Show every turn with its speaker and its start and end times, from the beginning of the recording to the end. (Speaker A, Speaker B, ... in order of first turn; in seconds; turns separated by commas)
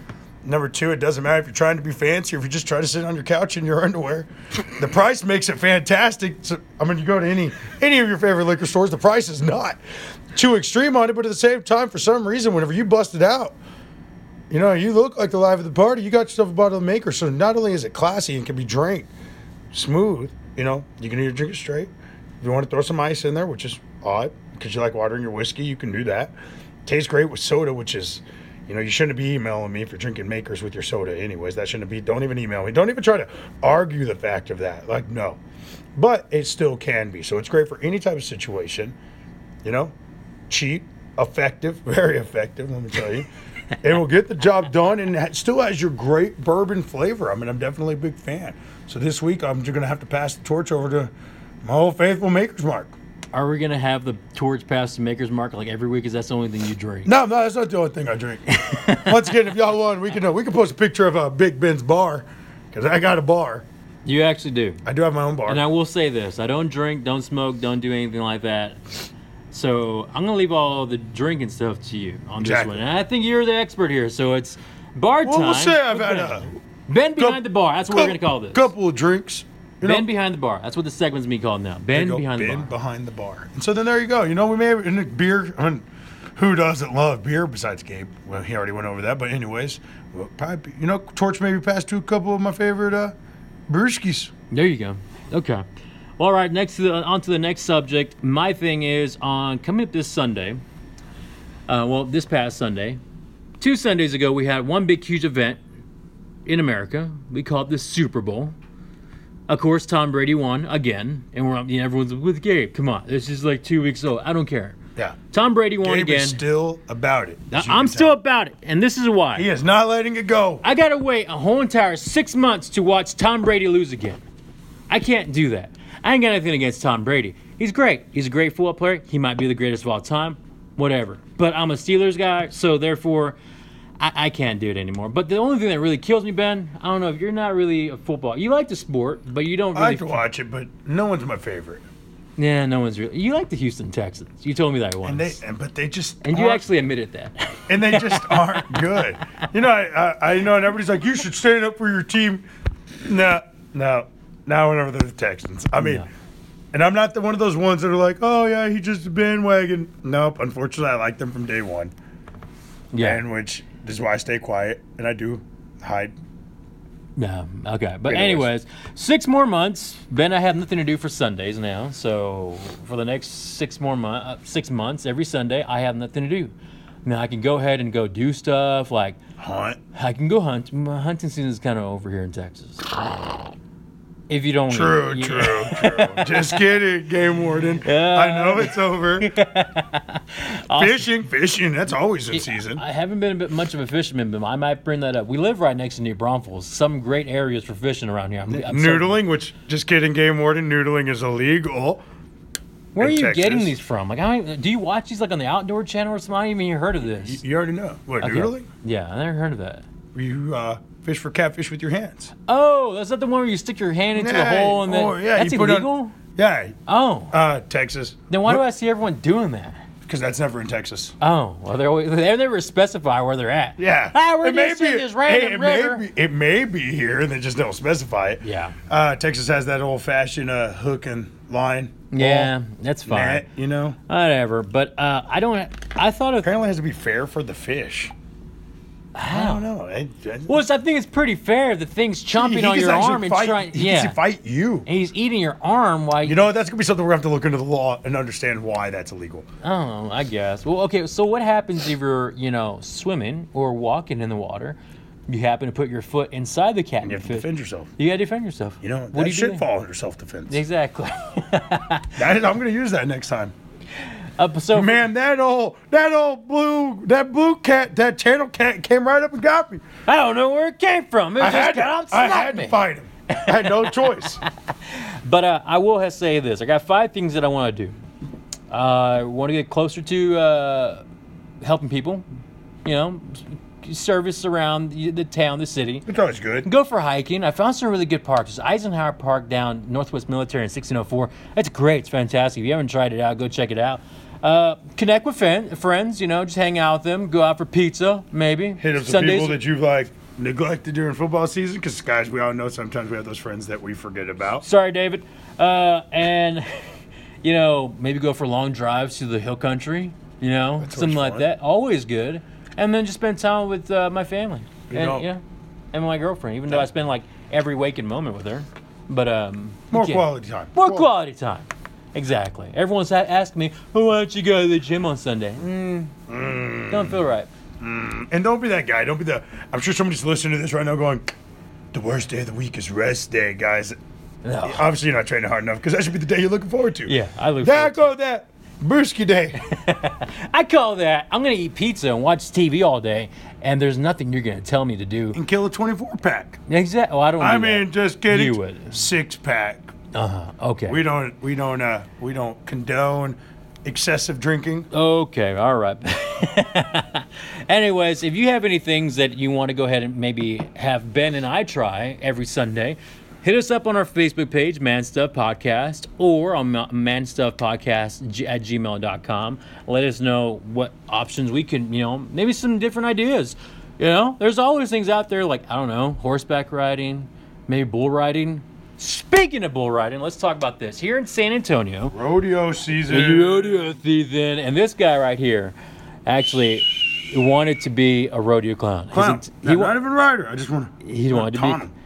Speaker A: 0.4-9.8, Speaker A: 10.3-13.6, Speaker A: 14.5-19.1, Speaker A: 19.7-26.3, Speaker A: 26.8-35.4, Speaker A: 36.0-39.0, Speaker A: 39.6-39.9, Speaker A: 40.5-43.3, Speaker A: 43.8-51.1, Speaker A: 51.6-52.9, Speaker B: 53.3-57.1, Speaker A: 57.0-63.6, Speaker B: 58.5-59.3, Speaker B: 64.0-64.8, Speaker A: 64.8-65.6, Speaker B: 65.5-68.9, Speaker B: 69.5-78.7, Speaker A: 72.4-72.8, Speaker A: 75.2-76.5, Speaker A: 77.2-80.1, Speaker B: 79.8-82.7, Speaker A: 81.9-93.1, Speaker A: 93.7-94.3, Speaker B: 94.5-95.6, Speaker B: 96.2-100.6, Speaker B: 101.7-103.0, Speaker B: 103.6-105.6, Speaker B: 106.5-108.5, Speaker B: 109.5-114.8, Speaker B: 115.3-116.4, Speaker A: 115.8-118.2, Speaker B: 117.5-119.5, Speaker A: 119.3-120.6, Speaker B: 120.6-124.2, Speaker B: 124.9-133.4, Speaker B: 134.0-140.2, Speaker A: 139.7-141.8, Speaker B: 142.4-145.4, Speaker A: 145.0-146.6, Speaker B: 146.2-149.4, Speaker A: 147.7-152.4, Speaker A: 153.1-156.1, Speaker B: 155.8-156.1, Speaker A: 156.7-161.9, Speaker B: 162.9-163.2, Speaker A: 163.0-166.1, Speaker B: 167.2-176.5, Speaker A: 168.1-168.5, Speaker B: 177.0-179.2, Speaker A: 179.4-179.8, Speaker B: 179.9-183.3, Speaker B: 184.3-186.7, Speaker A: 184.7-189.3, Speaker B: 187.8-191.1, Speaker A: 190.7-192.8, Speaker B: 192.3-199.2, Speaker A: 198.5-202.0, Speaker B: 202.9-207.4, Speaker A: 203.0-203.7, Speaker A: 207.0-208.7, Speaker B: 208.2-209.8, Speaker A: 210.1-212.3, Speaker B: 212.5-216.2, Speaker A: 214.1-216.8, Speaker B: 216.9-217.3, Speaker A: 217.3-218.6, Speaker B: 218.3-219.8, Speaker A: 220.0-221.1, Speaker B: 221.2-226.1, Speaker A: 223.8-232.5, Speaker B: 228.4-228.8, Speaker B: 232.1-233.4, Speaker A: 233.1-234.0, Speaker B: 234.1-236.5, Speaker A: 236.4-238.1, Speaker B: 239.1-239.7, Speaker A: 239.3-240.6, Speaker B: 240.5-244.2, Speaker A: 242.3-244.9, Speaker B: 244.8-246.4, Speaker A: 246.2-249.5, Speaker B: 249.6-254.8, Speaker B: 255.3-259.6, Speaker A: 257.0-257.9, Speaker A: 258.8-260.6, Speaker B: 260.5-262.2, Speaker A: 262.1-263.5, Speaker B: 264.0-265.1, Speaker A: 264.7-269.8, Speaker B: 270.1-272.8, Speaker A: 271.4-274.4, Speaker B: 273.3-277.9, Speaker B: 278.7-281.0, Speaker B: 281.6-282.2, Speaker B: 282.8-286.1, Speaker A: 286.1-286.7, Speaker B: 286.6-299.6, Speaker A: 298.8-304.6, Speaker B: 304.6-306.9, Speaker B: 307.4-315.4, Speaker A: 310.8-311.5, Speaker A: 314.9-315.3, Speaker B: 315.9-326.1, Speaker A: 319.9-321.1, Speaker A: 326.3-327.2, Speaker B: 326.9-327.5, Speaker A: 327.8-331.3, Speaker A: 331.9-334.0, Speaker B: 334.4-334.8, Speaker A: 334.6-339.6, Speaker B: 337.1-338.1, Speaker B: 339.6-345.4, Speaker A: 345.3-346.6, Speaker B: 346.7-349.0, Speaker A: 347.4-349.9, Speaker B: 350.1-351.0, Speaker A: 350.9-354.9, Speaker B: 354.9-382.1, Speaker A: 382.1-383.9, Speaker B: 383.1-385.7, Speaker B: 386.2-389.9, Speaker A: 389.1-391.9, Speaker B: 391.0-391.8